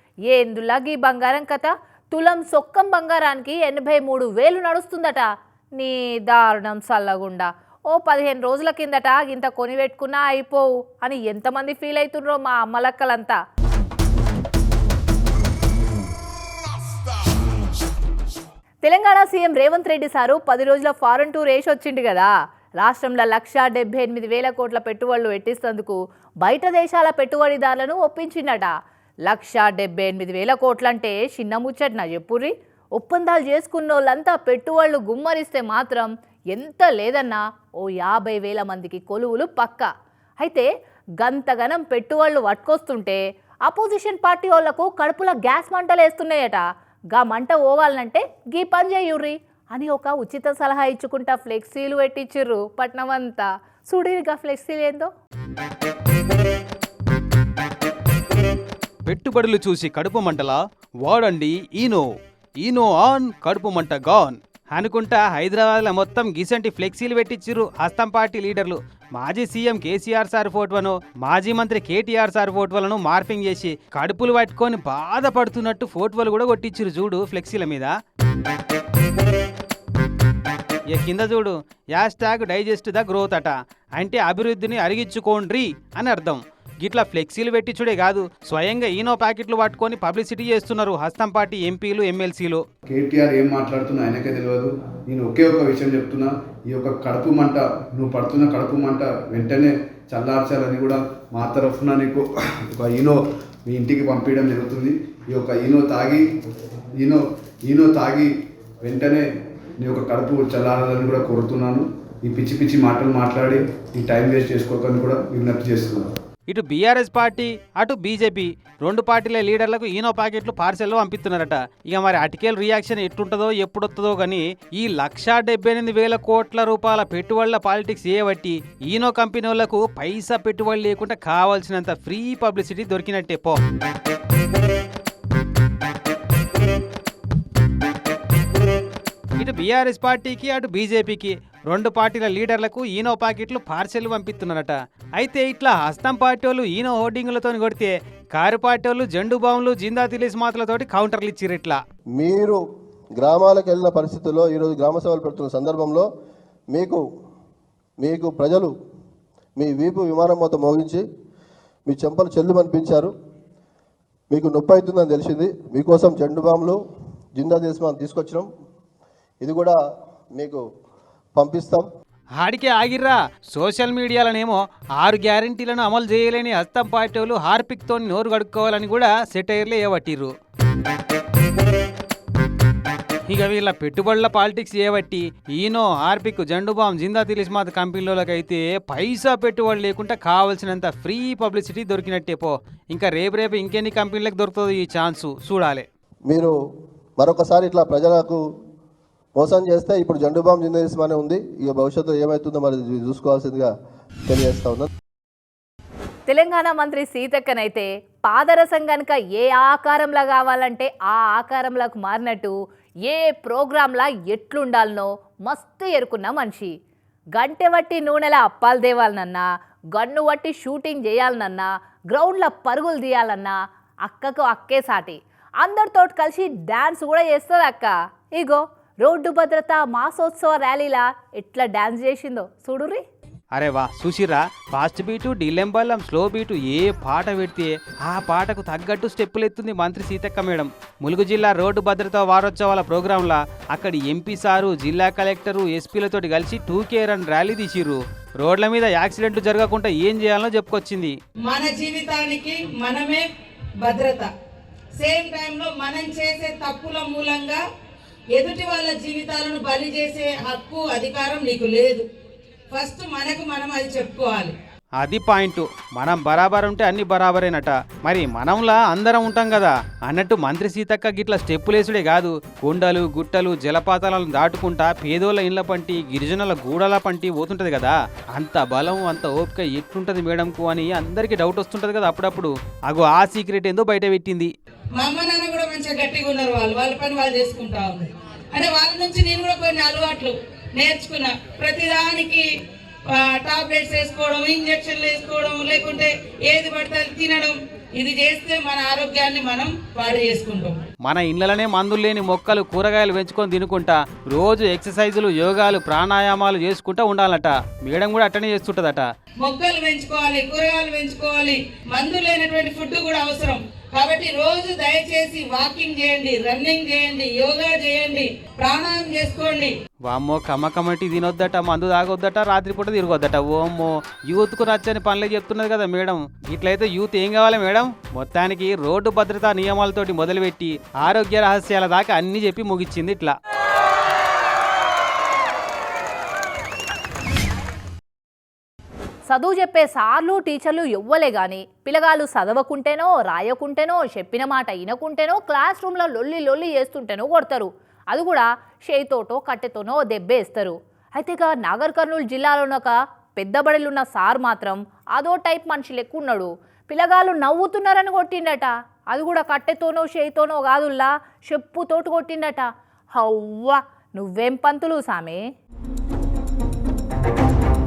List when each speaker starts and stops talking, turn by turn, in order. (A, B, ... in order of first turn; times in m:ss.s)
0:00.3-0:13.4 A
0:18.8-0:28.7 A
0:29.3-0:39.9 A
0:40.4-0:40.7 A
0:41.2-0:46.6 A
0:47.1-0:55.1 A
0:59.1-1:02.1 B
1:02.6-1:17.9 B
1:20.9-1:32.6 B
1:32.9-1:46.2 C
1:47.0-1:48.3 C
1:48.8-1:49.3 C
1:49.8-1:56.1 C
1:56.5-2:13.6 B
2:19.4-2:31.8 B
2:32.2-2:32.6 D
2:33.2-2:36.1 D
2:36.7-2:37.0 D
2:38.0-2:38.7 D
2:39.6-2:41.0 D
2:41.9-2:43.1 D
2:44.3-2:46.8 D
2:47.4-2:48.5 D
2:49.4-2:49.8 D
2:50.3-2:50.6 D
2:51.4-2:51.9 D
2:52.4-3:00.3 B
3:03.3-3:15.8 B
3:16.3-3:16.5 D
3:17.2-3:18.4 D
3:19.4-3:23.7 D
3:24.3-3:24.9 D
3:26.3-3:32.5 A
3:33.1-3:36.7 A
3:37.4-3:39.4 A
3:40.0-3:53.0 A
3:53.5-4:11.1 B
4:11.4-4:13.3 E
4:13.8-4:14.3 E
4:15.0-4:17.6 E
4:18.3-4:22.1 E
4:22.7-4:24.5 E
4:25.0-4:44.5 B
4:45.0-4:52.5 E
4:53.1-5:00.8 E
5:01.0-5:09.0 B
5:09.4-5:19.7 E
5:20.1-5:33.4 B
5:39.3-6:05.4 A